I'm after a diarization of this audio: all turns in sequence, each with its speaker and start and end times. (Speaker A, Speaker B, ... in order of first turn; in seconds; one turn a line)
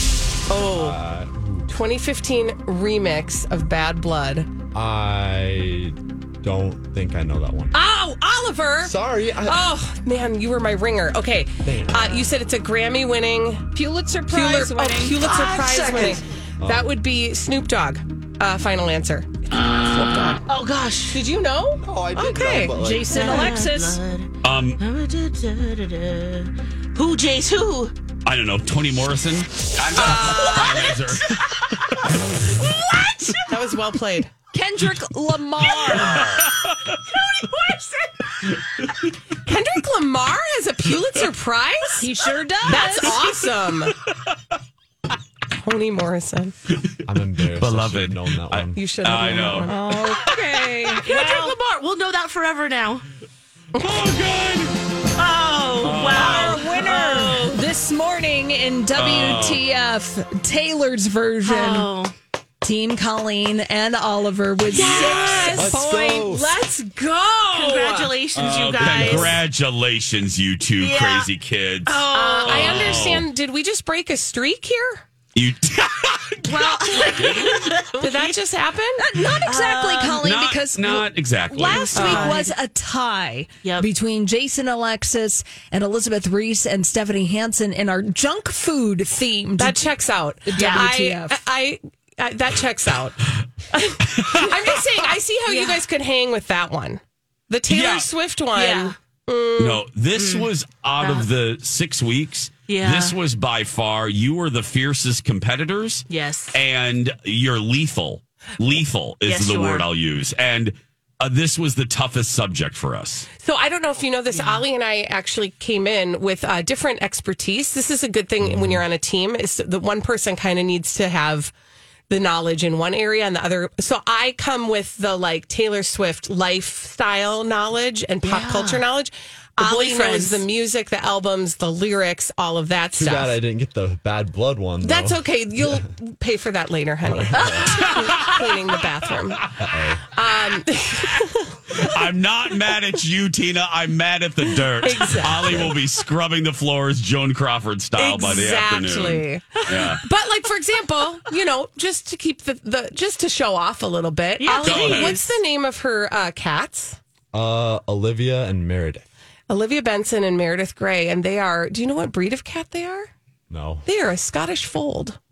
Speaker A: 0.5-1.0
Speaker B: 0.7-1.7
Speaker A: 1.7-4.5
Speaker B: 4.7-7.8
Speaker A: 7.7-13.7
Speaker B: 8.8-9.7
Speaker B: 11.6-12.2
Speaker C: 13.7-15.3
Speaker A: 14.3-19.3
Speaker B: 16.6-16.9
Speaker A: 19.9-20.4
Speaker D: 20.5-21.2
Speaker A: 21.1-22.8
Speaker B: 21.8-23.3
Speaker C: 22.7-24.0
Speaker D: 23.1-27.9
Speaker E: 24.4-24.8
Speaker E: 28.2-31.4
Speaker D: 29.9-34.0
Speaker A: 33.5-34.3
Speaker C: 34.5-36.4
Speaker D: 35.6-36.5
Speaker D: 37.1-38.3
Speaker A: 39.4-42.0
Speaker C: 42.0-43.4
Speaker D: 42.7-43.4
Speaker A: 42.7-43.9
Speaker A: 45.5-46.5
Speaker B: 47.1-48.8
Speaker E: 47.4-49.7
Speaker A: 48.7-49.8
Speaker C: 49.6-51.5
Speaker D: 51.0-53.0
Speaker A: 53.7-54.0
Speaker E: 53.8-54.8
Speaker D: 55.1-57.6
Speaker E: 55.8-56.6
Speaker C: 56.1-61.9
Speaker E: 58.9-59.6
Speaker D: 61.4-62.1
Speaker C: 62.6-66.5
Speaker D: 64.7-65.6
Speaker E: 64.7-65.5
Speaker A: 65.1-68.2
Speaker B: 65.5-66.5
Speaker D: 67.5-69.4
Speaker E: 68.3-73.3
Speaker C: 68.9-69.3
Speaker D: 70.8-71.3
Speaker D: 71.8-73.1
Speaker A: 72.1-75.0
Speaker E: 75.3-77.6
Speaker D: 76.5-78.4
Speaker A: 78.0-79.0
Speaker C: 79.0-91.4
Speaker D: 79.4-80.3
Speaker E: 80.2-81.9
Speaker D: 81.7-82.5
Speaker A: 81.9-82.3
Speaker A: 89.6-93.2
Speaker D: 90.5-90.9
Speaker A: 93.7-99.8
Speaker D: 95.5-95.8
Speaker E: 97.7-98.1
Speaker D: 98.5-98.9
Speaker E: 99.6-113.3
Speaker D: 100.1-101.3
Speaker D: 102.7-103.2
Speaker D: 106.1-106.5
Speaker D: 109.2-109.8
Speaker A: 113.3-121.5
Speaker D: 114.3-114.6
Speaker B: 118.4-118.7
Speaker A: 122.1-133.4
Speaker D: 128.2-128.8
Speaker D: 129.6-130.5
Speaker B: 133.0-135.7
Speaker A: 134.8-139.4
Speaker B: 137.1-137.7
Speaker D: 137.3-138.5
Speaker B: 139.6-140.0
Speaker A: 140.1-141.5
Speaker E: 141.8-150.0
Speaker A: 144.8-145.7
Speaker B: 145.3-145.8
Speaker A: 147.9-157.0
Speaker D: 154.4-155.4
Speaker E: 154.6-155.2
Speaker B: 157.3-159.0
Speaker A: 159.5-163.1
Speaker B: 163.5-163.8
Speaker A: 163.8-165.2